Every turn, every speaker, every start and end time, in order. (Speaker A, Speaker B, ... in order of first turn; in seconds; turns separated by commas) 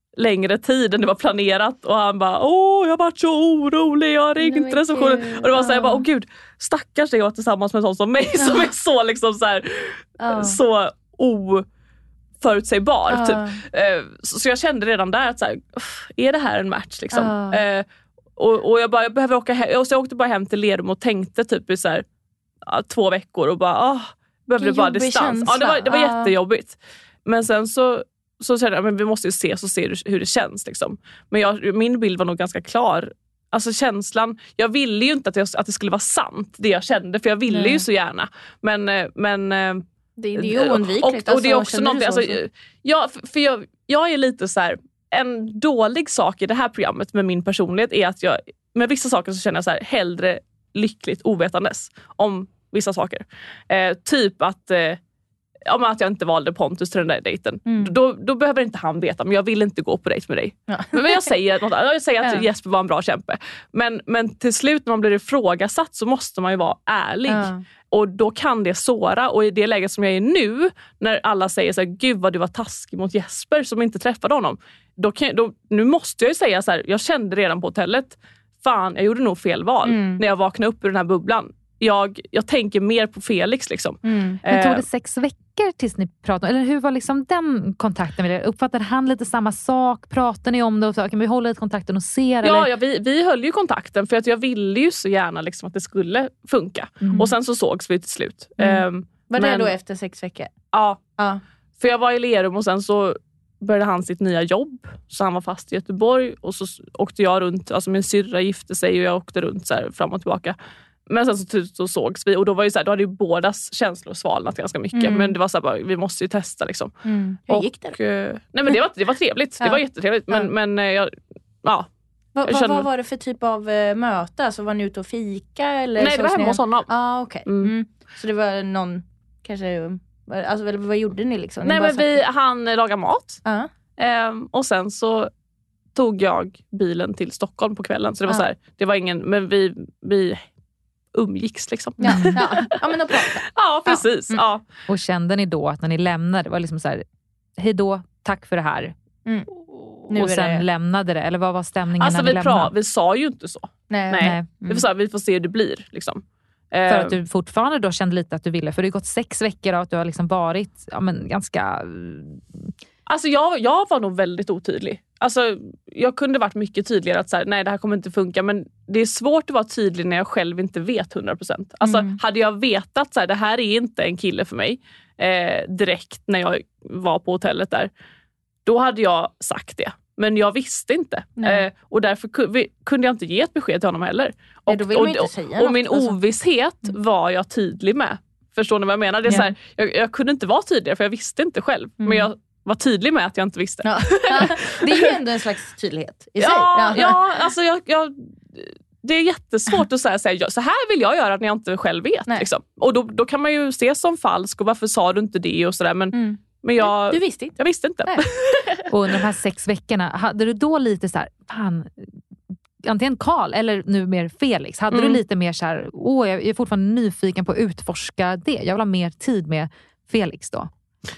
Speaker A: 0.2-11.6, Speaker B: 4.4-6.0, Speaker B: 8.4-8.7, Speaker B: 10.2-10.6, Speaker A: 12.4-17.8, Speaker B: 13.1-13.6, Speaker B: 17.1-17.6, Speaker A: 18.4-22.0, Speaker A: 22.7-39.8, Speaker B: 24.6-26.3, Speaker B: 37.5-37.8, Speaker B: 40.2-42.4, Speaker A: 40.3-55.0, Speaker A: 55.7-84.8, Speaker B: 57.7-57.9, Speaker B: 60.7-61.3, Speaker B: 67.3-67.6, Speaker B: 79.8-80.2, Speaker B: 84.0-84.4, Speaker C: 84.5-92.7, Speaker A: 92.4-99.7, Speaker C: 97.0-97.3, Speaker B: 98.6-100.5, Speaker A: 100.7-101.0, Speaker A: 101.8-110.5, Speaker A: 111.1-116.9, Speaker B: 114.9-115.3, Speaker B: 117.0-118.0, Speaker A: 117.5-121.1, Speaker B: 119.6-120.5, Speaker B: 122.3-132.2, Speaker A: 122.4-122.9, Speaker A: 126.0-126.9, Speaker A: 127.4-127.7, Speaker A: 131.6-133.4, Speaker A: 134.0-135.3, Speaker A: 135.9-140.4, Speaker A: 141.1-142.7, Speaker B: 142.0-144.4, Speaker C: 142.1-142.3, Speaker A: 143.4-144.6, Speaker C: 144.9-147.0, Speaker C: 147.6-148.9, Speaker C: 149.6-152.7, Speaker B: 150.1-150.6, Speaker A: 152.0-157.2, Speaker B: 153.9-154.8, Speaker C: 154.2-154.5, Speaker C: 156.9-162.7, Speaker A: 163.1-177.9, Speaker B: 171.8-172.2, Speaker A: 178.7-195.1, Speaker B: 181.4-181.7, Speaker B: 184.7-186.2, Speaker B: 189.3-189.5, Speaker B: 192.0-192.3, Speaker B: 193.8-197.2, Speaker A: 196.4-208.8, Speaker B: 206.1-208.2, Speaker C: 208.9-212.1, Speaker C: 212.8-220.7, Speaker A: 214.9-215.2